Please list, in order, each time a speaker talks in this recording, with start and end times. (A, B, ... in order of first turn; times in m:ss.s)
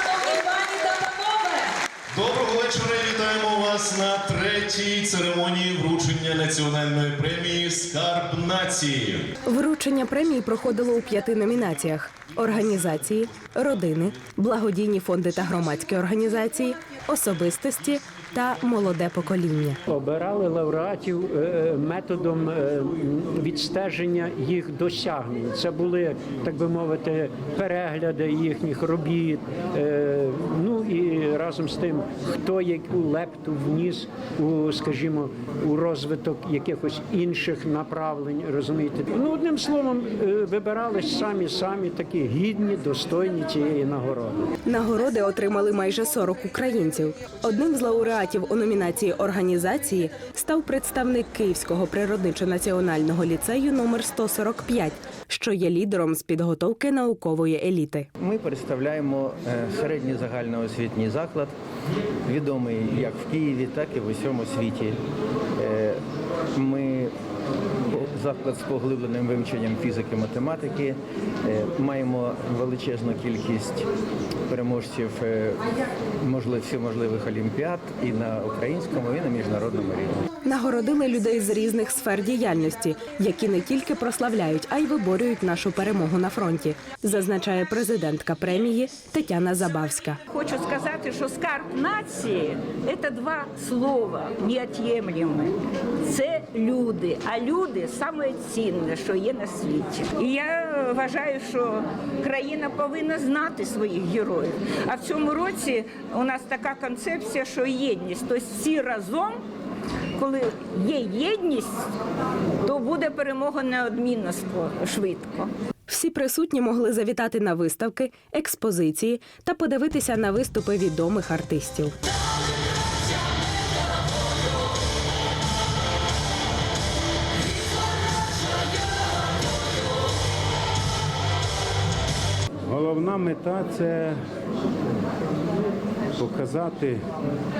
0:02.1-0:09.3 A
0:09.5-0:19.8 B
0:19.9-0:44.5 C
0:44.7-0:58.1 B
0:58.2-1:01.5 D
1:02.3-1:05.0 D
1:05.6-1:06.0 D
1:06.5-1:07.1 D
1:07.8-1:13.9 D
1:14.5-1:15.6 D
1:16.2-1:20.2 D
1:20.4-1:30.2 B
1:30.3-1:35.5 E
1:36.0-1:49.4 E
1:50.2-1:51.9 E
1:52.6-1:55.5 E
1:55.9-2:01.9 B
2:12.7-2:14.2 F
2:16.1-2:17.0 F